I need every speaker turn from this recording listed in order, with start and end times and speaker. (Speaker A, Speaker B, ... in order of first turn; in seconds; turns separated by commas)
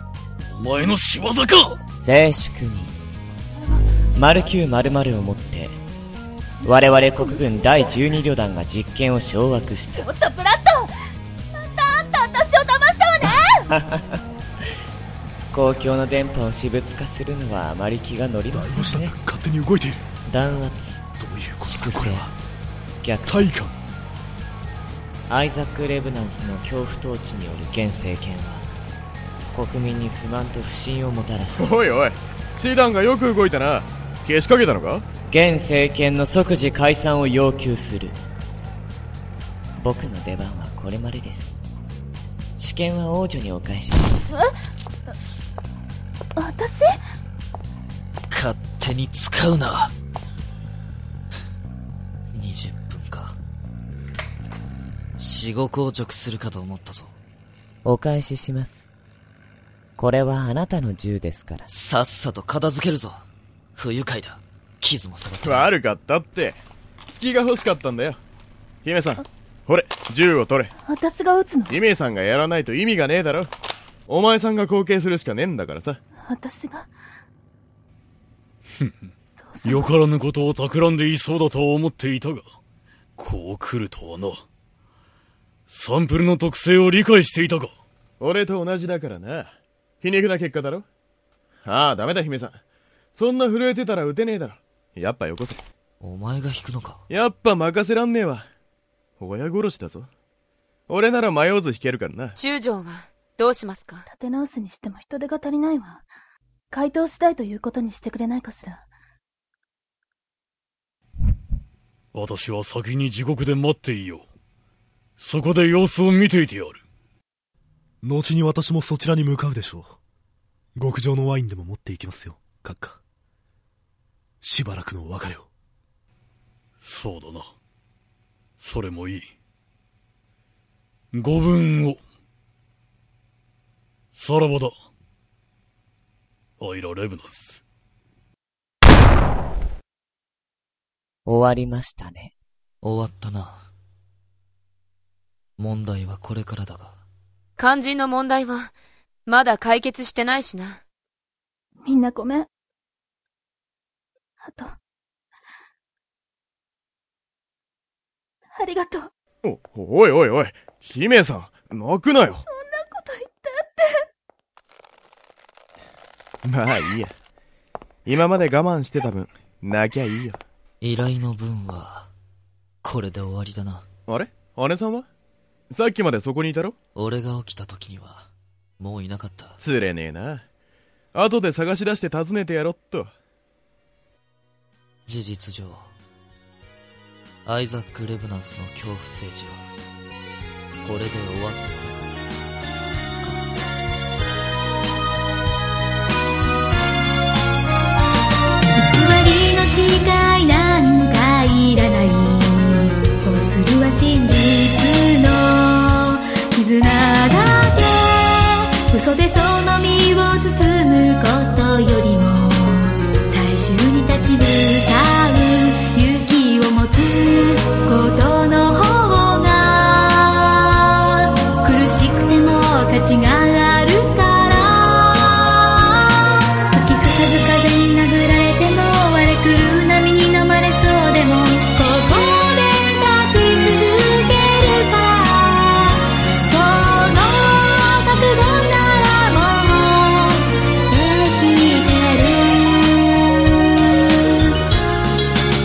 Speaker A: 0.5-1.8, Speaker B: 2.0-2.9, Speaker B: 4.1-5.8, Speaker B: 6.6-10.1, Speaker C: 6.7-8.0, Speaker C: 9.9-10.9, Speaker C: 11.6-13.7, Speaker B: 13.7-14.0, Speaker B: 15.5-19.1, Speaker D: 18.5-20.0, Speaker B: 20.3-21.0, Speaker D: 21.2-22.3, Speaker B: 21.6-22.3, Speaker B: 23.0-23.5, Speaker D: 23.2-23.7, Speaker B: 25.3-28.6, Speaker B: 29.5-31.7, Speaker E: 31.6-35.0, Speaker B: 35.3-38.2, Speaker B: 39.8-41.5, Speaker B: 42.6-44.2, Speaker C: 46.4-47.0, Speaker F: 48.3-49.9, Speaker F: 52.3-53.4, Speaker F: 55.2-57.1, Speaker B: 57.8-58.9, Speaker B: 60.0-61.7, Speaker F: 61.7-63.2, Speaker F: 63.8-65.8, Speaker E: 65.5-66.6, Speaker E: 67.1-68.2, Speaker E: 68.8-70.7, Speaker C: 70.8-71.8, Speaker E: 71.7-73.5, Speaker E: 74.1-76.0, Speaker C: 76.2-76.9, Speaker A: 78.8-79.1, Speaker C: 79.4-79.9, Speaker A: 79.6-82.5, Speaker A: 83.2-84.4, Speaker A: 85.7-87.7, Speaker E: 88.2-89.5, Speaker E: 90.0-90.8, Speaker E: 91.6-92.6, Speaker E: 93.2-95.6, Speaker F: 96.0-97.0, Speaker E: 97.1-98.4, Speaker E: 99.2-100.1, Speaker E: 100.9-102.3, Speaker G: 102.3-104.1, Speaker C: 104.1-106.0, Speaker C: 106.7-108.8, Speaker A: 112.1-114.2, Speaker A: 115.2-116.8, Speaker D: 118.0-120.0, Speaker D: 120.8-123.0, Speaker D: 124.4-125.5, Speaker A: 126.8-127.5, Speaker A: 128.6-129.3, Speaker A: 131.1-132.0, Speaker A: 134.1-134.7, Speaker A: 136.6-137.6, Speaker B: 141.2-142.3, Speaker F: 142.8-143.7, Speaker F: 145.6-147.0, Speaker G: 147.6-148.7, Speaker G: 149.2-150.8, Speaker C: 151.8-152.5, Speaker C: 154.4-154.7, Speaker C: 158.5-159.1, Speaker E: 159.4-162.4, Speaker C: 162.5-164.0, Speaker E: 166.4-167.1, Speaker E: 168.1-170.4, Speaker F: 170.8-172.1, Speaker F: 172.8-173.8, Speaker E: 174.1-175.0, Speaker E: 175.7-176.7, Speaker F: 176.9-179.6, Speaker E: 179.6-180.4, Speaker E: 181.1-183.1, Speaker F: 185.1-185.9, Speaker F: 187.4-189.7, Speaker F: 190.8-192.1, Speaker H: 198.8-220.2, Speaker H: 221.6-225.4, Speaker H: 226.7-235.9, Speaker H: 236.4-240.3, Speaker H: 240.9-242.8